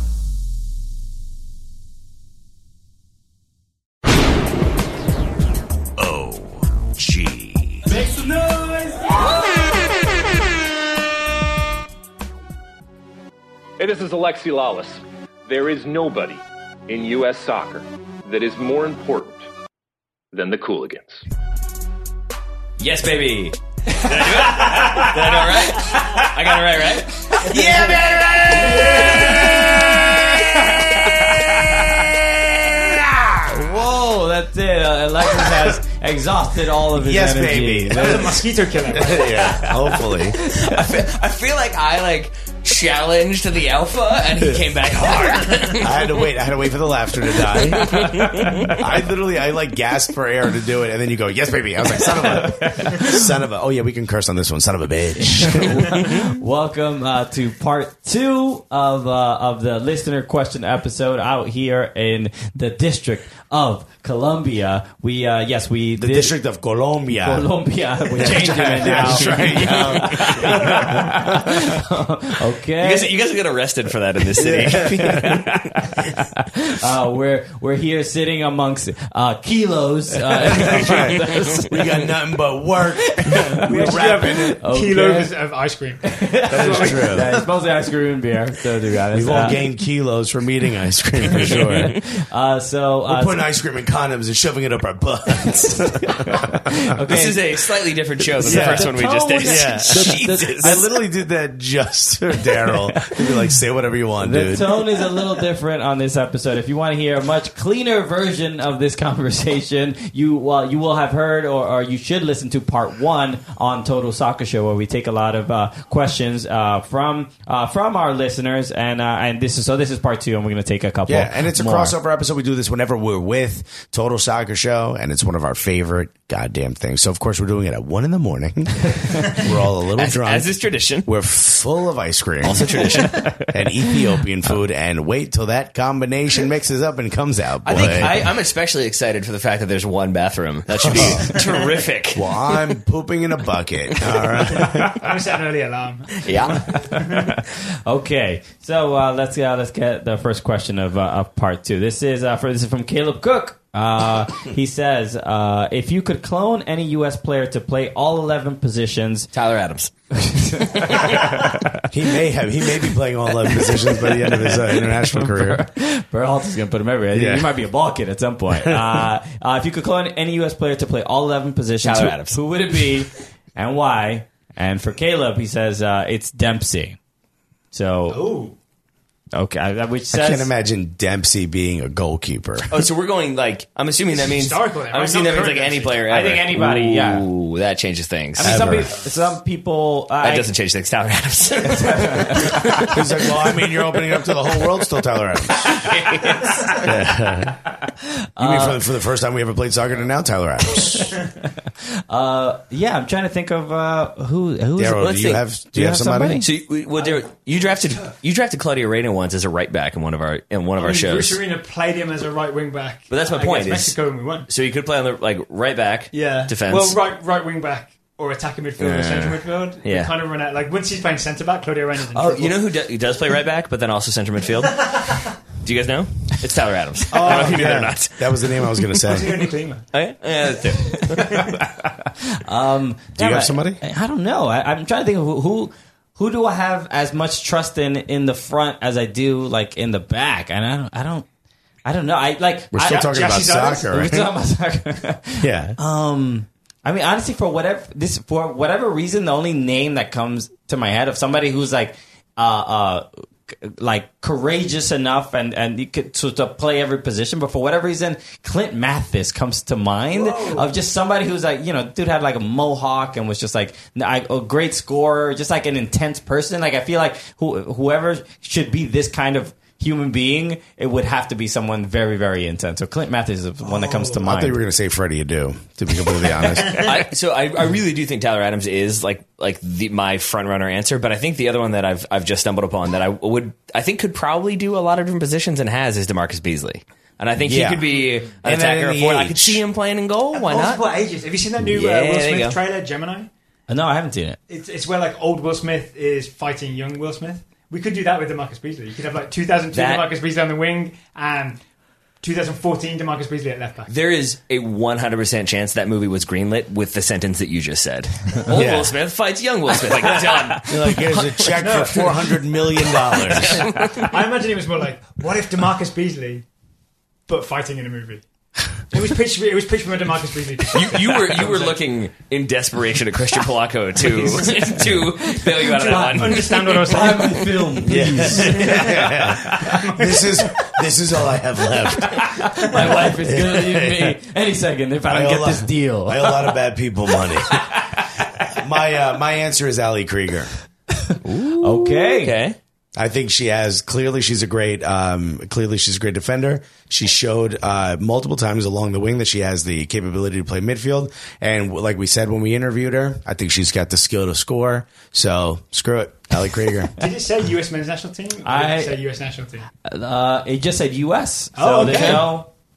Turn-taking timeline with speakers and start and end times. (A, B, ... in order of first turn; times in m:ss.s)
0:06.0-0:07.9 A
0:07.9-0:09.7 B
0:13.8-0:19.4 C
0:20.3-0:21.2 C
0:22.8-0:28.5 D
0:24.0-0:26.3 B
0:27.4-0:29.4 E
0:27.5-0:33.4 A
0:28.5-0:32.1 B
0:33.4-0:38.4 B
0:35.3-0:35.7 A
0:36.9-0:40.4 A
0:37.9-0:39.5 E
0:39.4-0:40.9 B
0:40.4-0:46.1 D
0:45.7-0:56.3 A
0:47.8-0:48.8 B
0:48.2-0:48.7 D
0:52.4-0:53.1 B
0:55.3-1:06.3 B
1:06.0-1:07.5 A
1:07.2-1:13.1 B
1:08.1-1:11.7 A
1:09.2-1:09.8 D
1:12.8-1:15.6 D
1:14.4-1:15.3 A
1:14.4-1:22.1 B
1:20.2-1:24.6 A
1:23.0-1:25.4 B
1:23.6-1:27.5 E
1:26.0-1:29.7 B
1:26.5-1:27.4 A
1:29.1-1:32.0 A
1:31.4-1:33.4 B
1:33.1-1:36.4 A
1:35.6-1:37.4 B
1:37.1-1:40.8 D
1:38.3-1:40.8 B
1:38.4-1:44.9 A
1:42.7-1:43.4 B
1:44.2-2:01.9 B
2:01.1-2:18.3 A
2:09.9-2:11.1 D
2:12.4-2:13.3 D
2:13.0-2:13.5 B
2:17.6-2:22.3 D
2:17.7-2:18.0 B
2:20.8-2:21.4 A
2:22.1-2:25.0 A
2:24.0-2:24.2 D
2:24.5-2:27.4 E
2:26.2-2:26.6 D
2:26.8-2:39.3 B
2:39.3-2:39.9 D
2:40.1-2:41.8 B
2:40.6-2:41.4 D
2:41.9-2:45.6 A
2:44.3-2:57.0 B
2:47.1-2:47.5 A
2:48.6-2:49.0 A
2:51.8-2:52.4 D
2:57.7-2:58.2 B
2:58.1-2:58.6 E
2:59.3-3:00.5 B
3:00.1-3:02.8 A
3:02.7-3:08.6 D
3:04.1-3:06.0 E
3:06.1-3:07.3 B
3:08.4-3:10.5 B
3:08.4-3:09.0 A
3:10.2-3:13.0 D
3:11.6-3:12.9 B
3:12.7-3:15.8 A
3:15.5-3:16.9 D
3:16.7-3:17.7 A
3:18.4-3:18.8 B
3:18.4-3:21.1 A
3:22.1-3:25.2 B
3:24.8-3:26.4 A
3:25.0-3:25.4 D
3:25.7-3:26.5 B
3:26.4-3:31.4 D
3:30.8-3:34.5 E
3:33.1-3:37.0 D
3:36.1-3:42.6 E
3:38.8-3:40.1 D
3:42.1-3:48.9 D
3:44.8-3:45.2 E
3:47.1-3:47.8 E
3:47.2-3:49.4 A
3:49.0-3:49.8 E
3:49.9-3:51.4 D
3:51.6-4:01.2 B
3:53.1-3:53.8 A
4:01.8-4:03.1 B
4:02.7-4:04.3 A
4:02.8-4:03.9 E
4:03.8-4:34.6 B
4:05.4-4:05.8 A
4:20.1-4:20.7 E
4:33.6-4:34.2 E
4:34.2-4:36.8 A
4:36.8-4:50.8 D
4:47.4-4:49.6 A
4:50.3-4:53.3 E
4:51.6-4:52.6 D
4:53.7-4:54.4 B
4:54.5-5:01.6 E
4:59.7-5:00.0 D
5:02.2-5:03.9 E
5:03.9-5:11.6 D
5:08.5-5:08.9 A
5:10.6-5:13.7 A
5:11.6-5:12.1 E
5:13.0-5:14.1 D
5:13.7-5:16.4 E
5:17.3-5:18.2 E
5:18.9-5:21.8 E
5:20.7-5:27.0 D
5:24.0-5:27.8 E
5:25.4-5:30.2 B
5:27.8-5:34.2 A
5:28.4-5:28.8 E
5:28.5-5:28.7 D
5:29.6-5:30.4 E
5:32.0-5:36.6 B
5:35.1-5:37.7 A
5:37.5-5:38.3 B
5:38.5-5:40.5 A
5:41.0-5:42.3 B
5:41.2-5:42.6 D
5:43.0-5:56.9 A
5:57.0-5:59.7 E
5:58.4-5:59.0 B
5:59.8-6:02.5 B
6:01.5-6:02.3 E
6:01.8-6:02.2 D